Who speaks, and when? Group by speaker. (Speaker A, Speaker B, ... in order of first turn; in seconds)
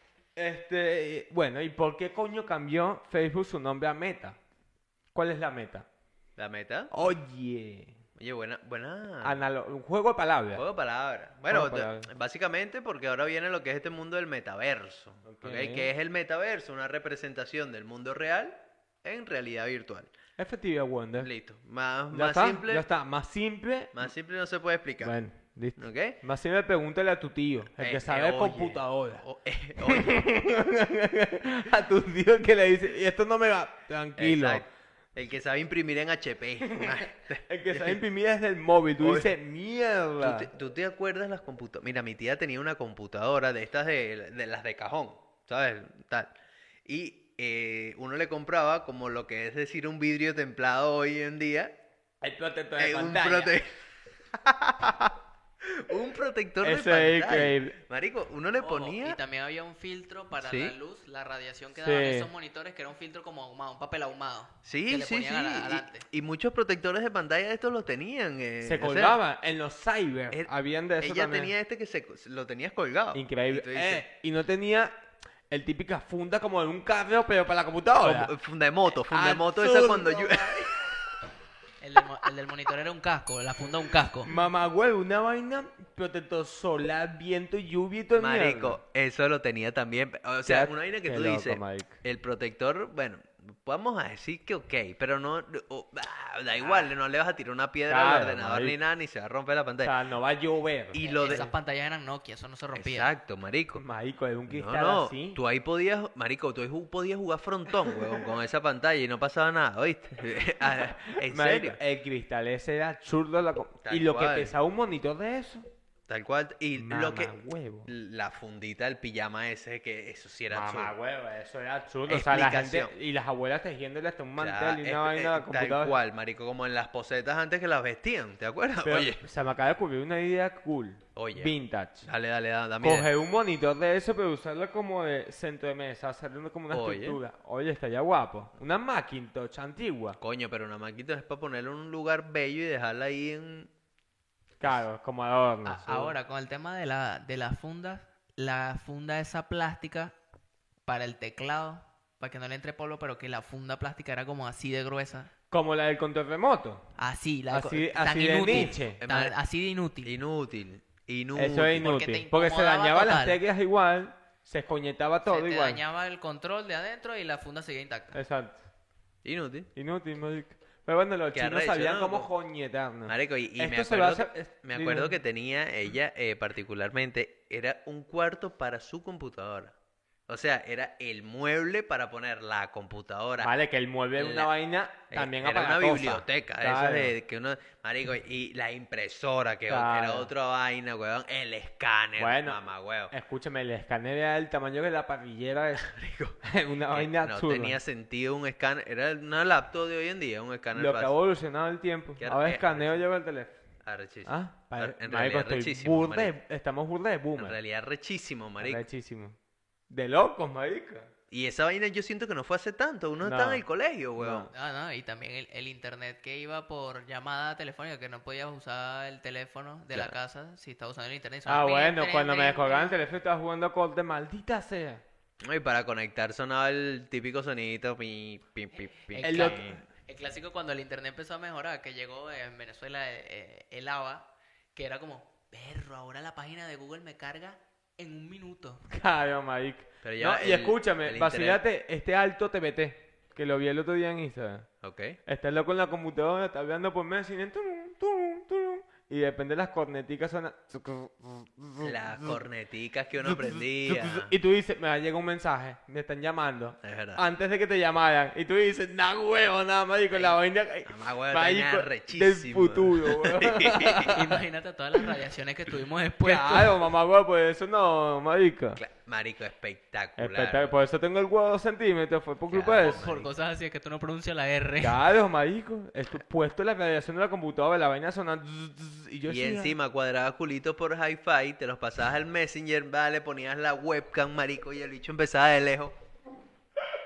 Speaker A: 0.4-4.4, 5.1-5.9, 6.9-8.0, 9.2-10.6, 11.5-12.1, 15.2-15.9, 20.4-21.3, 22.1-24.0, 25.0-29.2, 29.8-34.7, 36.7-40.5, 52.2-53.6, 56.6-57.8, 61.8-62.3, 68.6-71.5, 73.1-74.9, 75.5-78.3, 79.1-80.9, 84.3-88.8, 90.5-92.0, 97.9-98.8, 99.8-101.5, 103.8-105.4, 111.0-115.7, 116.8-117.9, 120.5-126.0, 128.8-132.1, 132.8-140.2, 144.6-146.1, 155.5-156.9, 157.5-159.0, 161.4-165.8, 168.1-168.6, 169.8-175.1, 183.4-187.1, 189.7-190.3, 192.2-195.9, 196.4-197.8, 200.7-203.6, 204.2-207.6, 208.6-209.4, 209.9-211.1, 213.2-213.7, 214.2-214.5, 221.5-225.0, 229.2-229.8, 238.9-244.7, 245.3-252.4, 253.2-264.4, 266.2-268.8, 270.2-273.1, 274.8-279.8
Speaker B: 6.4-6.9, 8.2-9.4, 10.6-20.1, 21.2-22.9, 23.9-25.1, 25.8-26.2, 27.7-30.3, 34.2-38.0, 39.0-39.3, 40.2-46.3, 46.9-51.8, 52.8-53.8, 54.3-59.2, 60.4-60.7, 64.7-69.2, 70.3-74.0, 78.0-80.9, 88.2-99.9, 100.9-101.5, 102.7-103.8, 104.5-111.8, 113.8-114.5, 116.1-117.4, 117.9-120.9, 122.1-122.9, 124.4-129.2, 131.2-133.1, 136.7-137.2, 140.2-143.7, 158.5-159.3, 160.0-161.9, 169.2-169.7, 171.3-172.3, 173.1-179.8, 180.3-183.5, 184.2-184.5, 185.1-193.1, 195.8-196.4, 196.9-201.1, 202.2-203.0, 203.8-206.3, 207.4-208.8, 211.3-214.5, 225.4-229.8, 240.0-241.6, 244.8-245.2, 251.8-254.3, 256.8-257.2, 260.1-264.3, 268.8-270.7, 272.5-273.3, 279.3-286.0
Speaker C: 58.6-66.0, 81.8-84.3, 101.0-103.1, 145.7-150.1, 150.9-155.3, 157.0-160.1, 161.8-163.4, 165.2-168.2, 214.5-223.0, 229.0-238.8, 264.1-266.9, 272.8-275.0